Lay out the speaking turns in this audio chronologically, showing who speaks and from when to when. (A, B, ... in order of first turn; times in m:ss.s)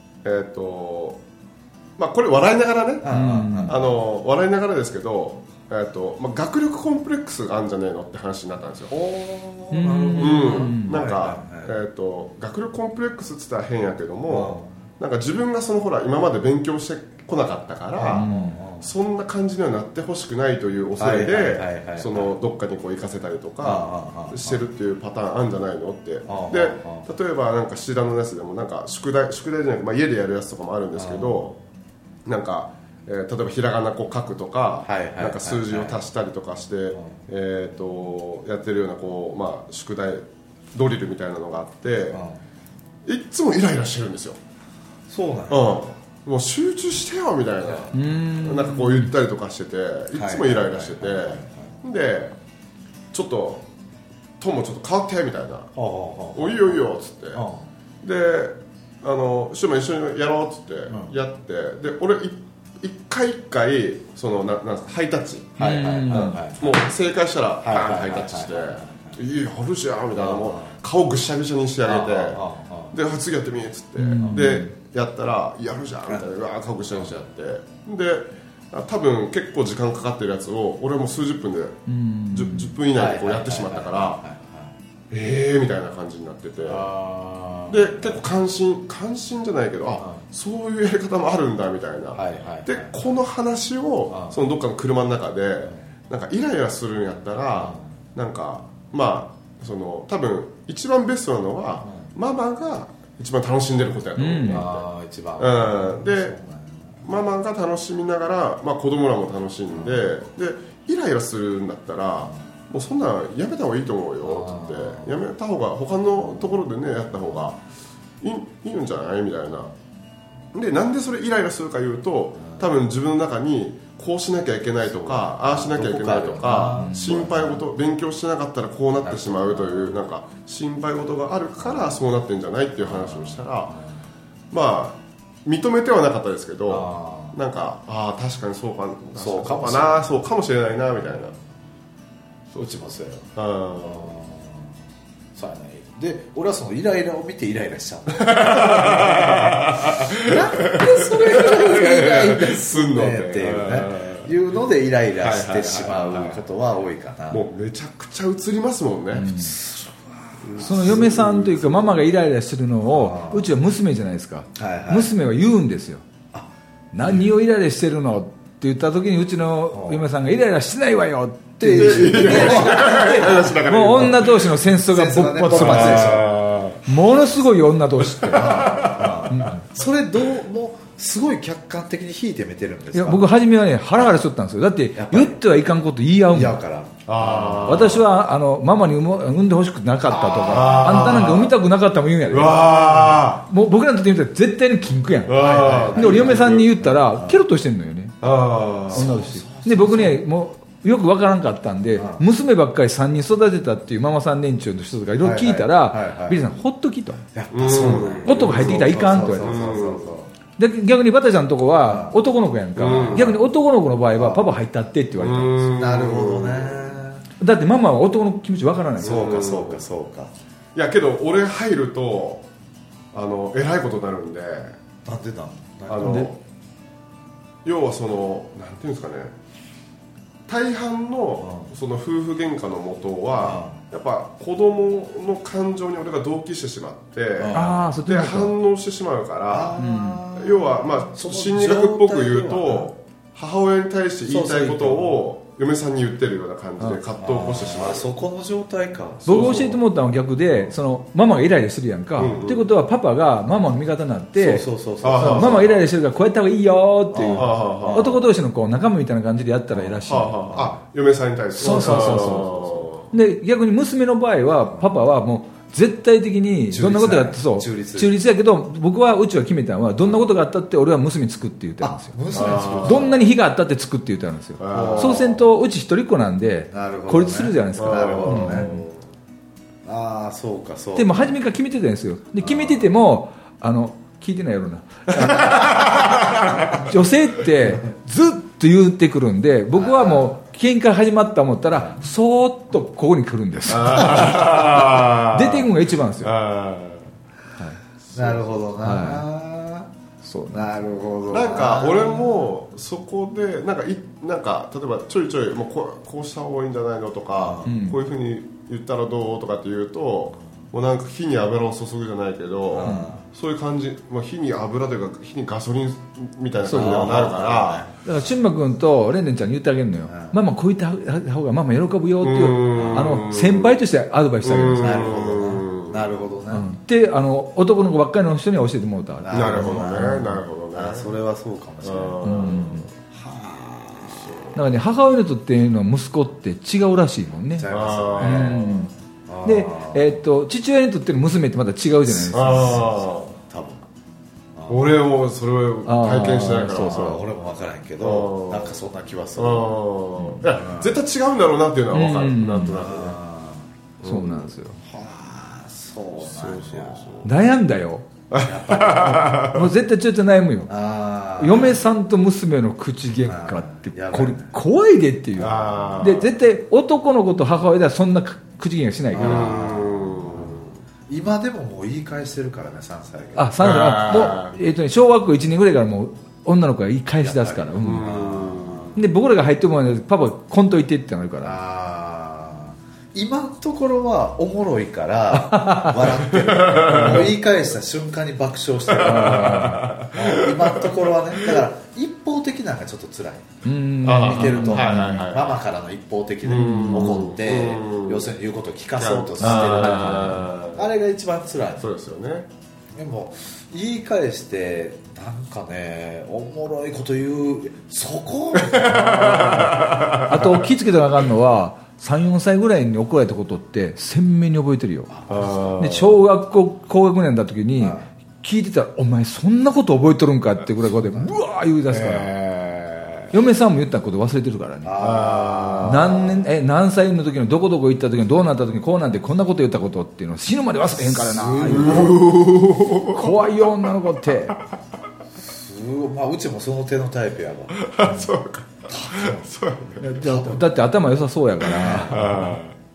0:00.2-0:01.2 A
0:02.0-0:08.9 A
0:03.0-0:03.9 B
0:03.1-0:03.8 C
0:08.9-0:11.7 B
0:09.7-0:11.0 C
0:10.2-0:18.3 A
0:14.3-0:14.8 B
0:17.9-0:18.9 B
0:18.1-0:18.6 C
0:18.8-0:31.5 A
0:21.0-0:22.3 B
0:23.6-0:24.6 B
0:26.2-0:27.1 B
0:30.9-0:31.5 B
0:32.2-0:42.2 A
0:34.8-0:36.0 B
0:36.9-0:37.2 B
0:42.1-0:42.4 B
0:43.0-0:44.4 A
0:45.1-0:45.7 B
0:45.5-0:52.4 A
0:47.9-0:49.1 C
0:50.1-0:51.7 B
0:53.1-0:53.6 A
0:54.4-0:55.7 A
0:55.7-0:56.8 B
0:56.3-0:57.4 A
0:57.3-0:57.7 B
0:58.0-1:21.8 A
1:00.9-1:01.2 B
1:05.6-1:06.7 B
1:05.6-1:06.4 C
1:07.6-1:09.2 B
1:10.2-1:10.8 B
1:11.8-1:12.9 B
1:14.0-1:14.7 C
1:14.2-1:14.6 B
1:21.9-1:22.8 C
1:22.3-1:24.2 A
1:22.9-1:24.7 B
1:25.1-1:26.9 A
1:26.6-1:28.2 B
1:27.7-1:44.8 A
1:30.0-1:30.2 B
1:32.1-1:32.9 B
1:34.1-1:34.4 B
1:37.5-1:37.9 B
1:41.8-1:42.1 B
1:44.2-1:44.6 C
1:44.5-1:47.0 B
1:45.4-1:46.4 A
1:47.0-1:57.6 A
1:49.7-1:50.1 B
1:54.2-1:55.2 B
1:58.2-1:59.7 A
2:00.5-2:13.8 A
2:04.9-2:07.6 B
2:06.8-2:07.1 C
2:09.0-2:10.0 B
2:11.6-2:12.0 B
2:12.8-2:14.0 B
2:14.5-2:21.3 A
2:16.7-2:17.4 B
2:19.1-2:20.1 B
2:22.5-2:24.8 B
2:23.4-2:24.1 A
2:25.3-2:37.4 B
2:28.1-2:34.3 A
2:35.2-2:36.4 A
2:37.3-2:39.3 A
2:39.1-2:39.6 C
2:39.2-2:41.1 B
2:40.4-2:41.8 A
2:40.6-2:46.0 C
2:42.9-2:43.5 B
2:44.5-2:45.1 B
2:46.9-2:56.2 C
2:49.7-2:50.0 B
2:51.6-2:54.1 B
2:51.6-2:54.5 A
2:54.7-2:56.3 B
2:55.5-2:56.8 A
2:56.8-2:59.6 C
2:58.1-2:59.3 A
2:58.3-3:03.3 B
3:02.9-3:06.6 C
3:05.0-3:05.4 B
3:06.3-3:08.0 B
3:07.0-3:08.0 A
3:07.6-3:12.8 C
3:10.1-3:11.5 B
3:10.3-3:11.5 A
3:12.3-3:13.4 A
3:12.6-3:13.3 B
3:13.4-3:18.2 C
3:15.3-3:16.7 A
3:15.3-3:17.4 B
3:18.2-3:19.1 A
3:18.9-3:20.2 B
3:18.9-3:27.2 C
3:22.0-3:22.2 B
3:25.2-3:26.4 B
3:27.3-3:30.3 B
3:27.5-3:30.1 A
3:28.2-3:29.7 C
3:30.6-3:35.6 C
3:31.8-3:32.2 B
3:32.8-3:33.4 A
3:32.8-3:33.4 B
3:34.1-3:34.5 B
3:35.2-3:37.0 A
3:35.6-3:37.3 B
3:37.4-3:39.2 C
3:39.0-3:40.3 B
3:39.0-3:39.8 A
3:40.7-3:42.4 A
3:43.1-3:44.8 A
3:45.0-3:46.3 B
3:45.9-3:46.4 A
3:46.0-3:46.3 C
3:47.6-3:49.3 A
3:50.5-3:59.8 A
3:51.4-3:51.7 B
3:53.4-3:53.8 B
3:57.4-3:57.8 B
3:57.5-3:58.5 C
3:59.5-4:02.9 B
3:59.8-4:00.2 C
4:00.3-4:08.1 A
4:04.2-4:05.2 B
4:07.2-4:09.7 B
4:09.2-4:09.8 A
4:09.2-4:14.6 C
4:12.2-4:12.6 A
4:12.2-4:12.5 B
4:14.4-4:15.7 B
4:15.0-4:15.8 A
4:15.2-4:20.7 C
4:17.1-4:18.3 B
4:17.2-4:18.1 A
4:19.7-4:20.7 B
4:20.1-4:23.1 A
4:21.6-4:22.5 C
4:21.6-4:22.7 B
4:23.1-4:32.2 C
4:26.7-4:28.2 B
4:31.8-4:33.2 B
4:32.3-4:33.1 A
4:32.8-4:38.8 C
4:34.6-4:35.4 A
4:34.7-4:35.4 B
4:36.7-4:38.9 B
4:37.8-4:38.9 A
4:39.8-4:41.3 B
4:41.0-4:46.1 C
4:42.4-4:42.8 B
4:45.4-4:46.7 A
4:46.7-4:56.3 C
4:49.7-4:50.4 B
4:53.7-4:55.7 A
4:56.2-4:57.1 A
4:58.1-4:58.5 A
4:58.1-4:59.9 B
4:58.8-4:59.2 C
5:00.2-5:00.8 C
5:00.5-5:02.5 B
5:01.2-5:17.9 A
5:07.3-5:07.7 B
5:07.6-5:08.0 C
5:12.7-5:13.2 B
5:12.8-5:13.1 C
5:16.6-5:17.1 C
5:16.6-5:17.9 B
5:18.0-5:25.1 C
5:20.1-5:20.4 B
5:22.2-5:23.8 A
5:22.7-5:23.2 B
5:24.4-5:26.1 A
5:24.8-5:26.7 B
5:26.5-5:30.3 C
5:29.2-5:34.6 B
5:29.3-5:31.1 A
5:31.8-5:32.9 A
5:32.2-5:32.8 C
5:34.2-5:34.5 A
5:34.5-5:37.7 C
5:37.6-5:40.2 B
5:37.7-5:38.6 A
5:38.2-5:38.9 C
5:39.4-5:42.8 C
5:42.2-5:43.3 A
5:42.2-5:43.8 B
5:44.5-5:45.0 B
5:44.7-5:47.2 A
5:45.8-5:47.2 C
5:46.7-5:49.8 B
5:48.0-5:48.8 A
5:49.4-5:53.2 A
5:50.4-5:51.0 B
5:51.9-5:52.8 C
5:52.6-5:53.7 B
5:54.0-5:54.5 A
5:54.0-5:54.8 C
5:54.8-5:57.2 B
5:56.2-5:57.3 A
5:57.2-5:58.1 C
5:58.3-5:59.7 A
5:58.4-5:59.3 B
5:58.9-6:00.7 C
6:00.7-6:01.8 B
6:01.4-6:09.6 C
6:03.2-6:04.6 B
6:05.4-6:06.2 B
6:05.4-6:06.3 A
6:09.1-6:13.7 B
6:09.2-6:10.8 A
6:13.4-6:18.1 C
6:13.6-6:14.6 A
6:17.2-6:19.0 B
6:17.8-6:19.0 A
6:18.9-6:21.6 C
6:21.4-6:33.6 B
6:25.3-6:26.0 C
6:26.1-6:27.4 A
6:28.9-6:31.6 A
6:29.0-6:30.0 C
6:33.6-6:35.2 C
6:34.0-6:35.6 A
6:34.2-6:41.9 B
6:36.4-6:38.3 A
6:36.5-6:37.3 C
6:39.0-6:40.9 A
6:39.4-6:40.5 C
6:41.8-6:42.5 A
6:42.9-6:50.2 B
6:48.5-6:50.6 A
6:50.2-6:55.1 C
6:55.1-6:55.9 B
6:55.3-6:56.2 A
6:55.8-7:02.3 C
6:57.8-6:58.1 B
7:01.0-7:01.4 B
7:01.9-7:03.3 A
7:03.3-7:05.0 C
7:04.8-7:06.5 B
7:05.0-7:06.1 A
7:05.8-7:12.3 C
7:11.0-7:12.3 B
7:11.6-7:13.5 A
7:13.0-7:14.6 C
7:15.4-7:18.3 B
7:17.7-7:20.5 A
7:18.9-7:19.5 B
7:20.0-7:22.6 C
7:20.2-7:20.6 B
7:21.7-7:22.4 B
7:21.8-7:22.7 A